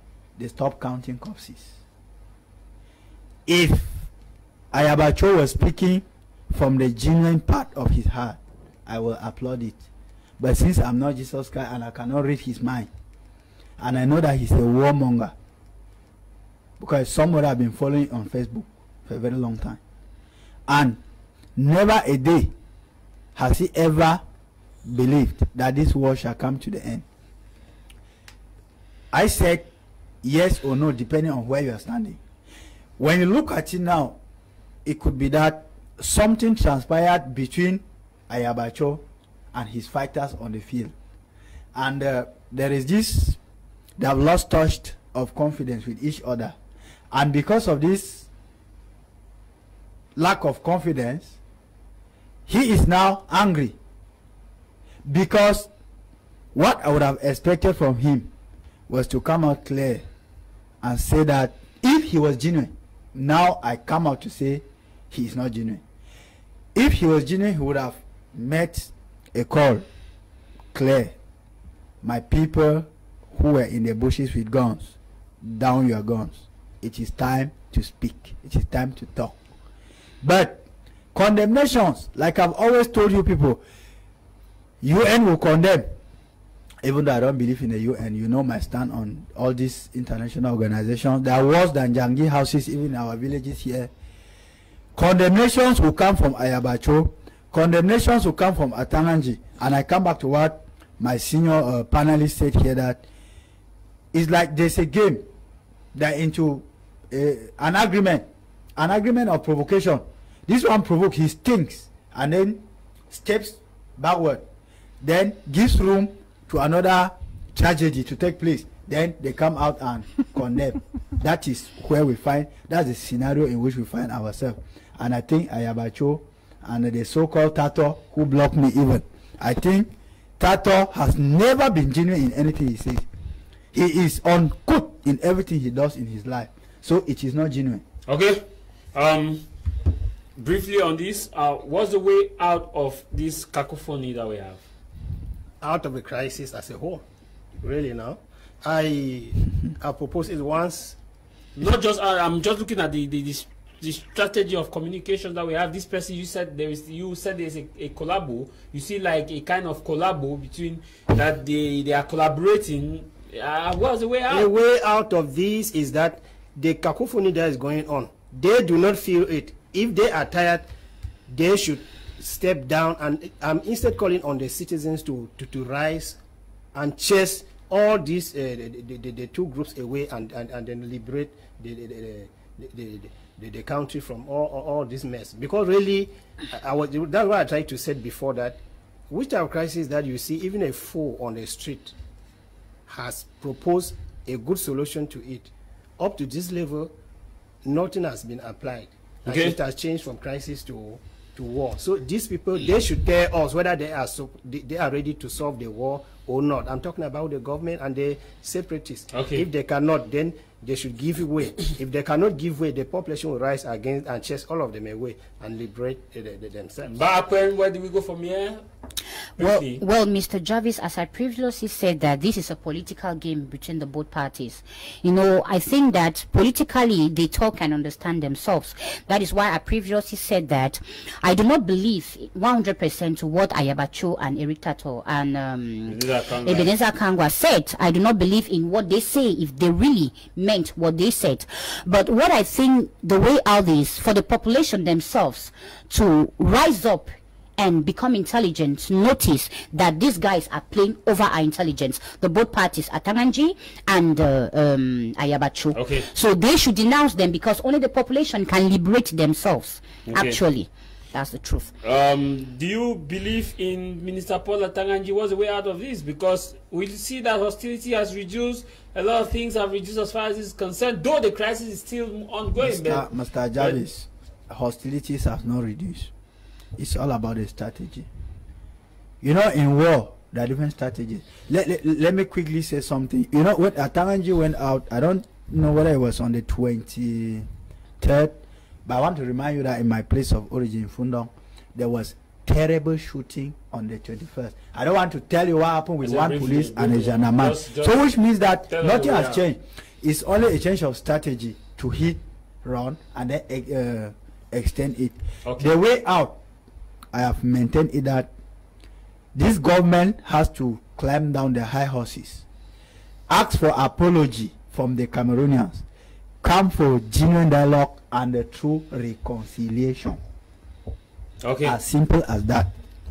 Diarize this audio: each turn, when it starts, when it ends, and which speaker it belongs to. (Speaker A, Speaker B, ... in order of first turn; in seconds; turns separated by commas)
Speaker A: 0.4-1.7, Speaker A: 3.5-4.1, Speaker A: 4.7-9.8, Speaker A: 10.4-12.9, Speaker A: 13.8-15.3, Speaker A: 16.8-19.8, Speaker A: 20.7-21.0, Speaker A: 21.6-22.5, Speaker A: 23.4-24.2, Speaker A: 24.9-27.1, Speaker A: 29.1-29.7, Speaker A: 30.2-32.2, Speaker A: 33.0-34.2, Speaker A: 34.9-40.9, Speaker A: 41.8-43.4, Speaker A: 44.0-46.6, Speaker A: 47.1-48.3, Speaker A: 50.2-51.4, Speaker A: 52.5-53.8, Speaker A: 55.0-55.7, Speaker A: 56.5-58.3, Speaker A: 58.9-60.0, Speaker A: 60.8-65.8, Speaker A: 66.8-69.9, Speaker A: 70.7-71.2, Speaker A: 72.0-79.4, Speaker A: 80.2-83.6, Speaker A: 84.8-85.9, Speaker A: 86.8-93.9, Speaker A: 95.0-103.0, Speaker A: 104.1-105.2, Speaker A: 105.9-114.5, Speaker A: 115.0-133.1, Speaker A: 133.7-137.8, Speaker B: 138.1-139.4, Speaker B: 140.4-144.6, Speaker C: 145.6-147.0, Speaker C: 147.6-151.0, Speaker B: 151.6-164.5, Speaker C: 164.3-170.7, Speaker C: 171.3-176.2, Speaker C: 176.8-191.9, Speaker C: 192.9-196.9, Speaker C: 197.6-217.0, Speaker B: 199.3-199.6, Speaker B: 209.1-209.5, Speaker B: 216.9-218.6, Speaker B: 219.4-219.8, Speaker D: 219.4-261.7, Speaker B: 235.9-236.7, Speaker B: 255.8-256.1, Speaker B: 260.1-260.4, Speaker B: 261.8-273.1, Speaker A: 272.6-276.1, Speaker B: 273.6-273.8, Speaker A: 276.8-278.1, Speaker A: 279.2-287.5, Speaker A: 288.0-306.4, Speaker B: 296.0-298.1, Speaker B: 298.7-299.4, Speaker B: 305.4-305.7, Speaker A: 307.1-308.3, Speaker A: 309.3-312.4, Speaker A: 313.3-315.9, Speaker A: 316.4-320.2, Speaker B: 321.4-321.8, Speaker A: 321.6-322.7